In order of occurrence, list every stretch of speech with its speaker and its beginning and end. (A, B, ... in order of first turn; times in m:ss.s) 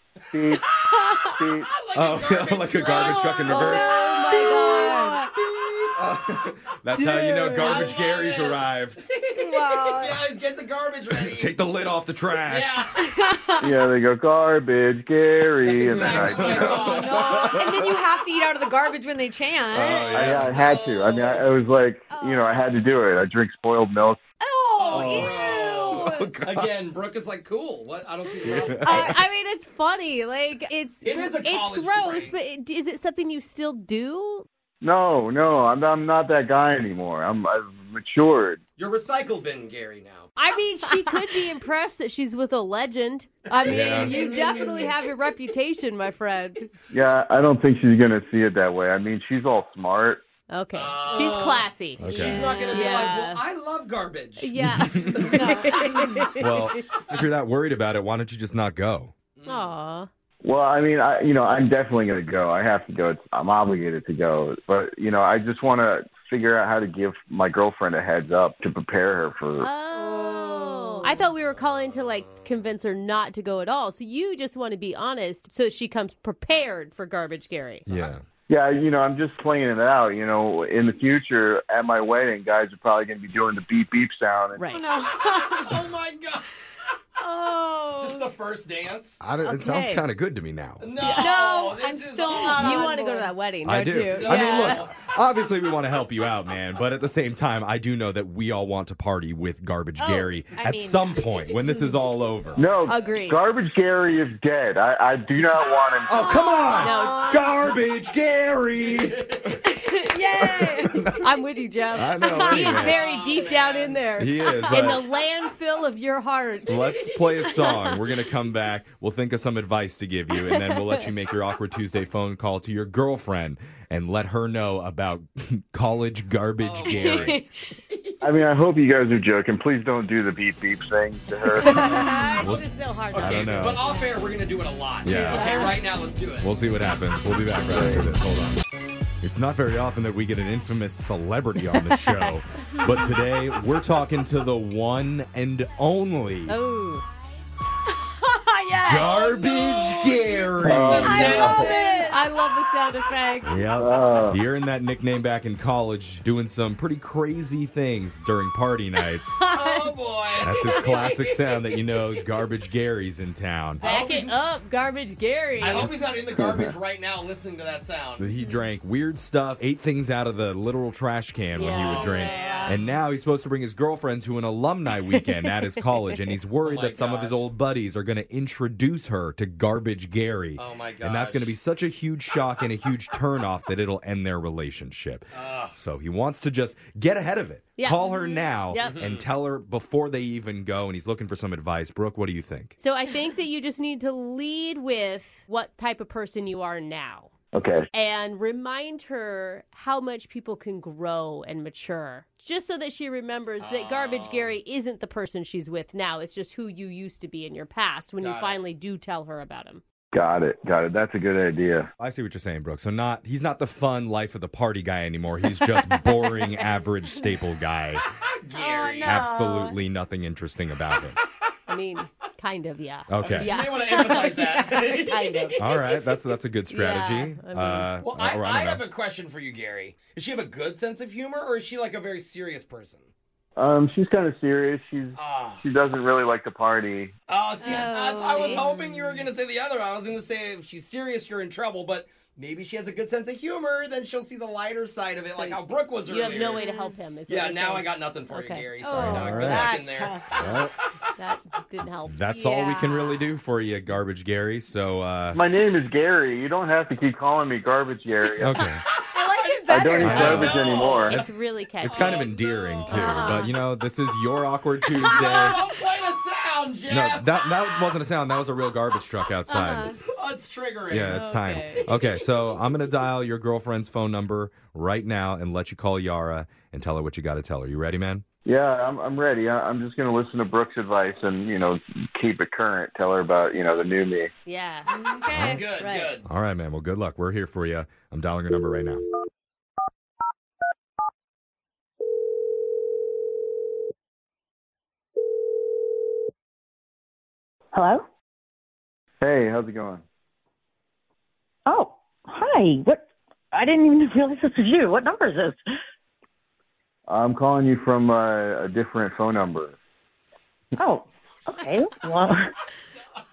0:00.3-0:00.7 A
0:00.7-0:01.0 B
0:01.3-0:01.7 A
0:01.7-0:03.8 B
0:01.9-0:03.9 C
0:03.5-0:05.2 D
0:03.5-0:05.3 E
0:05.4-0:05.9 B
0:06.0-0:09.1 C
0:06.9-0:07.9 E
0:07.5-0:11.5 B
0:09.4-0:10.2 E
0:11.2-0:12.8 C
0:12.3-0:12.9 B
0:13.1-0:13.7 E
0:13.6-0:16.9 A
0:15.6-0:17.5 B
0:16.0-0:17.9 C
0:16.6-0:20.0 E
0:19.7-0:20.6 C
0:19.8-0:21.4 B
0:20.0-0:24.2 A
0:22.1-0:22.6 E
0:24.4-0:26.3 E
0:24.8-0:29.1 B
0:24.9-0:25.3 C
0:26.2-0:26.7 C
0:28.4-0:29.2 C
0:28.4-0:29.2 E
0:29.0-0:34.5 D
0:31.0-0:32.4 B
0:34.8-0:38.6 A
0:38.8-0:40.3 B
0:40.4-0:46.7 D
0:43.6-0:44.8 B
0:43.7-0:44.1 C
0:44.3-0:44.9 E
0:46.9-0:50.2 A
0:50.5-0:53.4 D
0:50.7-0:55.8 B
0:52.0-0:52.5 C
0:54.4-0:56.8 D
0:54.6-0:55.2 C
0:55.3-0:56.3 E
0:56.4-0:59.1 C
0:59.4-0:59.7 B
0:59.4-1:00.1 D
1:00.4-1:09.7 A
1:09.6-1:17.8 D
1:09.9-1:11.2 E
1:17.8-1:18.1 B
1:17.9-1:18.2 C
1:18.5-1:24.7 A
1:24.6-1:24.8 D
1:24.7-1:25.9 E
1:25.6-1:26.4 B
1:27.2-1:28.3 E
1:28.0-1:29.2 B
1:29.2-1:30.9 C
1:29.4-1:30.0 D
1:30.8-1:33.0 B
1:31.1-1:33.3 E
1:32.3-1:34.8 D
1:33.6-1:42.6 C
1:34.1-1:34.9 B
1:40.0-1:41.9 E
1:42.6-1:46.6 A
1:42.9-1:43.4 D
1:46.1-1:49.5 C
1:46.4-1:47.7 E
1:46.8-1:47.2 D
1:48.8-1:49.4 B
1:49.7-1:51.1 E
1:50.4-1:51.2 C
1:51.1-1:56.8 D
1:51.9-1:52.9 C
1:52.2-1:53.0 E
1:52.8-1:54.0 B
1:54.2-1:55.0 C
1:56.7-2:07.4 C
1:57.4-1:58.0 E
2:00.4-2:01.0 D
2:06.6-2:08.0 B
2:06.8-2:07.5 E
2:08.2-2:12.2 A
2:11.6-2:14.2 D
2:12.4-2:13.8 C
2:13.1-2:16.5 B
2:15.0-2:15.4 C
2:15.1-2:15.8 D
2:16.4-2:18.6 C
2:17.7-2:18.1 A
2:19.2-2:26.6 C
2:21.6-2:22.3 D
2:26.5-2:27.0 D
2:28.2-2:30.2 E
2:28.8-2:31.4 C
2:30.6-2:31.7 A
2:30.7-2:32.2 B
2:30.9-2:32.2 E
2:31.6-2:33.6 D
2:33.4-2:39.4 C
2:33.8-2:34.4 A
2:39.4-2:39.9 E
2:39.5-2:41.6 B
2:40.4-2:43.8 C
2:43.8-2:44.3 B
2:43.8-2:45.9 D
2:45.6-2:48.3 B
2:46.4-2:46.7 A
2:48.2-3:12.7 C
2:51.5-2:52.3 D
2:51.9-2:53.0 B
2:51.9-2:52.8 E
2:56.6-2:57.4 B
3:00.6-3:01.6 B
3:05.3-3:05.8 B
3:07.8-3:08.9 D
3:08.8-3:09.3 B
3:12.8-3:17.3 D
3:17.5-3:17.9 A
3:17.9-3:29.8 D
3:23.6-3:24.6 B
3:28.2-3:28.6 B
3:30.1-3:31.9 A
3:32.0-3:38.0 C
3:35.6-3:36.2 D
3:38.4-3:39.3 B
3:38.6-3:39.8 E
3:39.0-3:41.2 C
3:41.7-3:45.6 D
3:43.1-3:43.5 C
3:43.2-3:46.0 B
3:45.6-3:48.8 C
3:46.7-3:47.9 D
3:48.0-3:53.1 B
3:53.6-3:57.1 A
3:55.2-3:55.6 B
3:57.3-4:06.7 B
3:57.6-3:59.2 E
3:58.3-3:58.6 D
4:05.4-4:08.7 D
4:06.6-4:07.0 E
4:07.3-4:10.6 B
4:08.8-4:10.3 E
4:08.9-4:09.7 C
4:10.3-4:10.7 C
4:11.2-4:12.4 D
4:12.1-4:15.4 C
4:12.3-4:13.3 E
4:15.3-4:18.6 A
4:18.4-4:18.8 C
4:18.4-4:20.4 E
4:19.1-4:21.3 B
4:19.7-4:21.2 A
4:20.0-4:20.6 C
4:20.2-4:22.2 D
4:21.8-4:25.6 C
4:21.8-4:23.2 B
4:22.9-4:23.5 E
4:23.0-4:23.4 D
4:25.0-4:27.3 B
4:26.9-4:30.0 C
4:29.5-4:30.0 E
4:30.0-4:31.3 B
4:30.9-4:38.2 C
4:31.1-4:31.8 D
4:38.4-4:44.3 A
4:44.4-4:44.9 D
4:44.9-4:45.7 E
4:45.3-4:45.6 C
4:45.4-4:46.2 B
4:45.7-4:46.2 D
4:46.2-4:49.1 C
4:57.7-4:58.0 F
4:59.2-5:00.0 A
5:01.7-5:05.6 F
5:07.1-5:09.8 A
5:10.8-5:12.4 F